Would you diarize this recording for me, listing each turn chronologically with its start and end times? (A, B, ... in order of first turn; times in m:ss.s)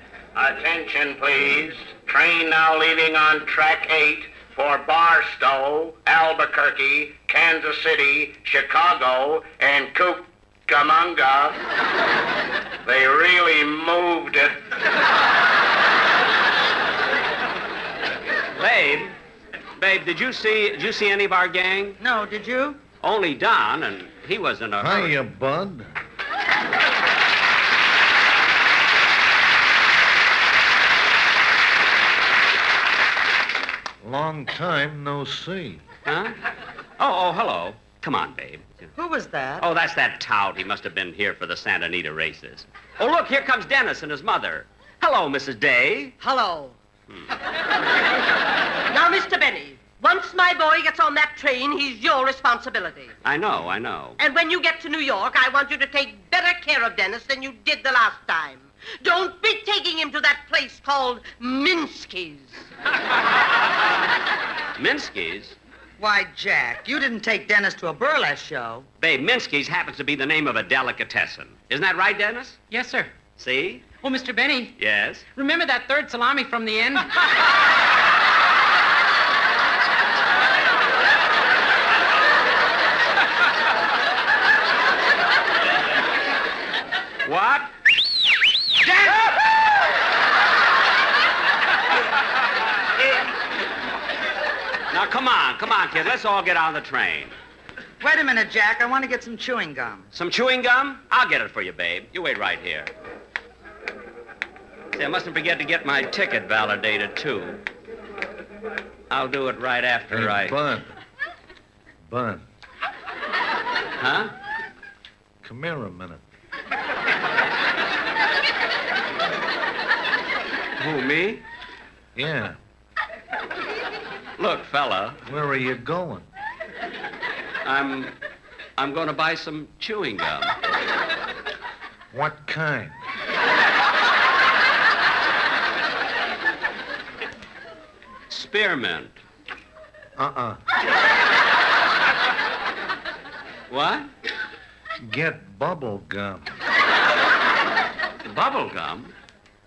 0:00.4-0:11.6 A
0:12.8-0:14.6 A
0:18.6-0:19.1 B
0:19.8-0:22.0 B
0:22.0-0:22.8 C
0:23.0-0:25.2 B
0:24.8-0:25.9 D
0:34.0-0:35.8 D
0:36.0-0:36.3 B
0:37.0-0:38.9 B
0:39.0-0:39.6 C
0:39.6-0:46.1 B
0:46.2-0:46.7 E
0:48.9-0:53.1 E
0:53.2-0:54.2 B
0:54.2-1:02.7 E
1:04.8-1:05.6 B
1:06.0-1:08.8 C
1:09.0-1:12.6 B
1:12.7-1:13.1 F
1:13.4-1:13.9 B
1:14.0-1:14.8 F
1:14.8-1:15.2 B
1:15.3-1:17.1 F
1:27.2-1:27.7 B
1:28.8-1:29.2 B
1:34.9-1:37.3 B
1:38.0-1:40.1 C
1:40.1-1:42.9 B
1:44.9-1:47.6 B
1:49.1-1:50.6 B
1:50.1-1:50.9 D
1:52.0-1:52.4 D
1:54.0-1:54.3 B
1:55.4-1:56.2 D
2:00.8-2:01.4 B
2:02.1-2:02.6 D
2:04.4-2:05.2 B
2:05.2-2:06.2 D
2:07.6-2:08.1 B
2:08.8-2:10.5 B
2:12.1-2:13.0 D
2:18.3-2:19.1 B
2:20.2-2:20.6 D
2:23.7-2:24.1 B
2:25.0-2:26.5 D
2:28.2-2:29.1 B